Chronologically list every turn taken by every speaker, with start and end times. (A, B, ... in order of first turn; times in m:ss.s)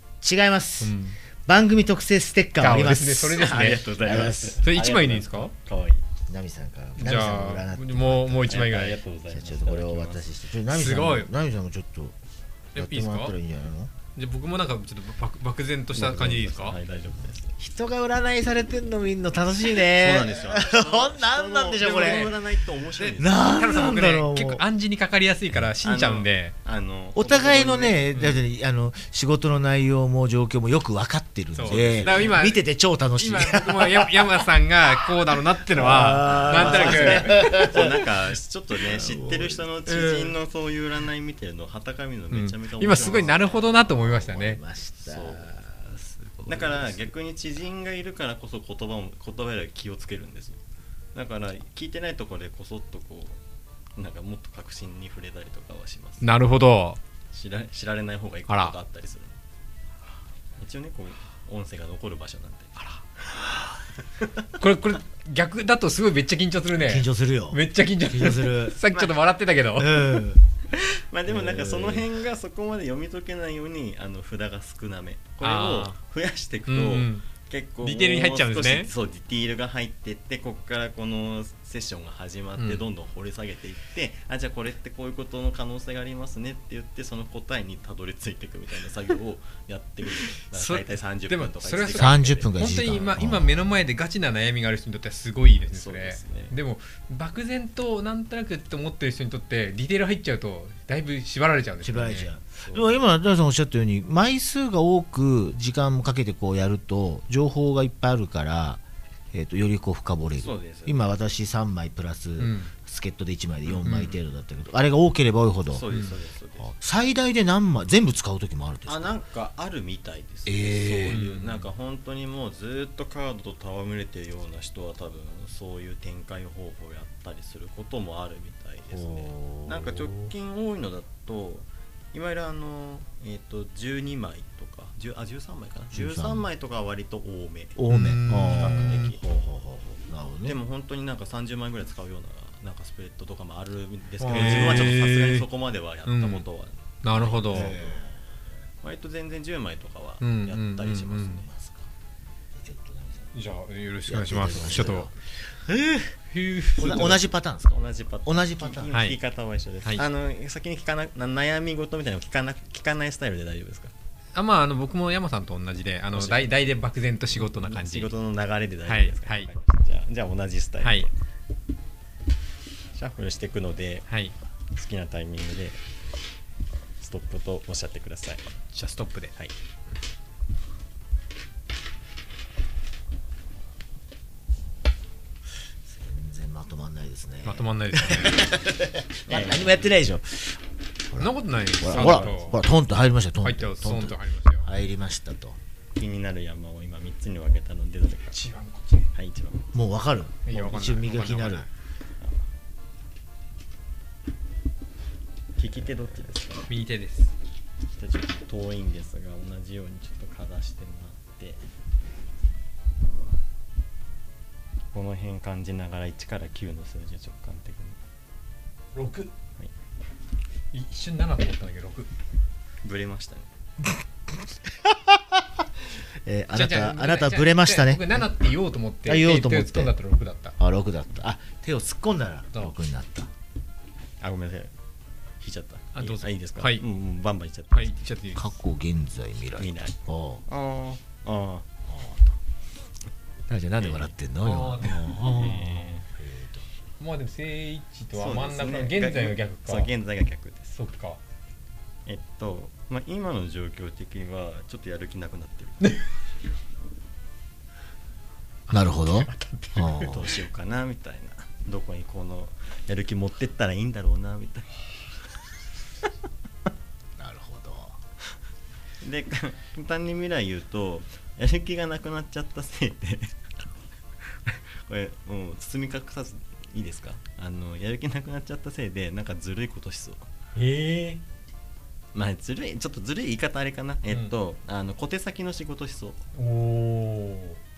0:00.2-0:04.6 A
0:00.8-0:01.2 B
0:02.6-0:03.8 B
0:03.3-0:06.0 C
0:04.6-0:05.5 B
0:06.3-0:08.7 A
0:07.0-0:09.0 B
0:08.5-0:10.3 C
0:09.3-0:12.2 A
0:10.7-0:11.3 B
0:12.8-0:13.4 B
0:12.8-0:13.9 A
0:14.2-0:16.8 B
0:15.9-0:17.6 C
0:17.6-0:22.3 A
0:19.8-0:23.6 C
0:21.8-0:22.4 B
0:23.0-0:26.6 B
0:23.2-0:24.6 A
0:25.8-0:28.1 C
0:27.2-0:38.0 A
0:28.1-0:28.4 B
0:31.6-0:32.6 B
0:31.6-0:32.4 C
0:33.2-0:37.6 B
0:35.9-0:43.7 C
0:38.8-0:39.6 A
0:39.9-0:40.3 B
0:42.3-0:44.6 B
0:43.0-0:47.1 A
0:45.0-0:45.6 C
0:46.4-0:50.6 C
0:51.2-0:53.4 C
0:54.0-0:56.3 C
0:56.2-0:57.0 B
0:57.3-0:59.4 C
0:58.5-0:58.8 B
1:00.6-1:02.8 C
1:04.6-1:10.3 B
1:06.8-1:08.8 A
1:09.8-1:10.4 A
1:11.1-1:33.0 C
1:11.3-1:12.1 A
1:15.4-1:16.0 B
1:16.7-1:17.3 B
1:17.8-1:18.9 B
1:30.5-1:42.3 B
1:31.9-1:33.8 A
1:35.7-1:36.6 C
1:41.8-1:55.9 A
1:42.6-1:43.0 C
1:50.4-1:51.0 C
1:52.4-1:52.7 B
1:53.7-1:54.1 C
1:53.8-1:54.2 B
1:55.7-1:56.7 C
1:56.6-1:59.2 A
1:58.9-2:17.8 C
2:00.5-2:01.2 A
2:01.1-2:01.7 B
2:08.9-2:10.3 A
2:15.9-2:16.5 A
2:17.8-2:20.6 A
2:17.9-2:19.0 B
2:18.4-2:19.2 C
2:20.4-2:28.0 C
2:24.2-2:25.5 B
2:24.3-2:24.8 A
2:26.1-2:26.4 B
2:27.0-2:27.8 B
2:27.5-2:28.4 A
2:28.8-2:31.5 C
2:30.2-2:31.4 B
2:31.5-2:31.9 A
2:32.5-2:33.3 A
2:33.3-2:35.1 B
2:34.1-2:36.2 A
2:36.3-2:37.2 B
2:36.8-2:38.9 A
2:37.7-2:43.9 C
2:38.9-2:39.2 B
2:44.4-2:48.1 B
2:46.1-2:46.5 C
2:47.6-2:51.1 C
2:48.9-2:49.5 B
2:50.8-2:51.1 B
2:53.0-2:54.1 C
2:54.7-2:55.8 C
2:57.0-2:58.4 C
2:58.7-2:59.3 B
3:05.9-3:15.6 A
3:07.4-3:08.5 B
3:09.3-3:09.9 C
3:11.2-3:12.6 B
3:11.9-3:12.5 C
3:13.4-3:14.7 B
3:16.0-3:18.3 C
3:18.3-3:19.1 B
3:19.1-3:19.7 C
3:19.7-3:21.7 A
3:20.5-3:21.7 B
3:25.6-3:26.7 C
3:26.7-3:27.3 B
3:28.0-3:31.6 C
3:34.9-3:38.0 C
3:38.9-3:39.3 B
3:40.7-3:42.1 B
3:42.8-3:43.5 C
3:43.8-3:45.7 A
3:46.2-3:48.3 A
3:46.5-3:50.6 B
3:49.0-3:50.0 A
3:50.6-3:53.3 A
3:54.2-3:54.7 C
3:55.4-3:58.0 C
3:56.0-3:56.8 B
3:57.7-3:58.4 B
3:58.4-4:00.4 A
3:59.6-4:01.7 C
4:01.9-4:02.4 A
4:03.5-4:06.6 A
4:03.8-4:04.1 C
4:04.4-4:05.5 B
4:05.2-4:06.1 C
4:07.0-4:09.9 B
4:08.1-4:10.8 C
4:10.8-4:11.2 B
4:12.1-4:15.9 C
4:18.7-4:20.2 B
4:18.7-4:20.3 A
4:19.8-4:24.7 C
4:27.2-4:28.0 A
4:29.0-4:33.4 C
4:34.3-4:40.3 C
4:40.6-4:41.2 B
4:42.1-4:46.2 C
4:46.3-4:47.6 B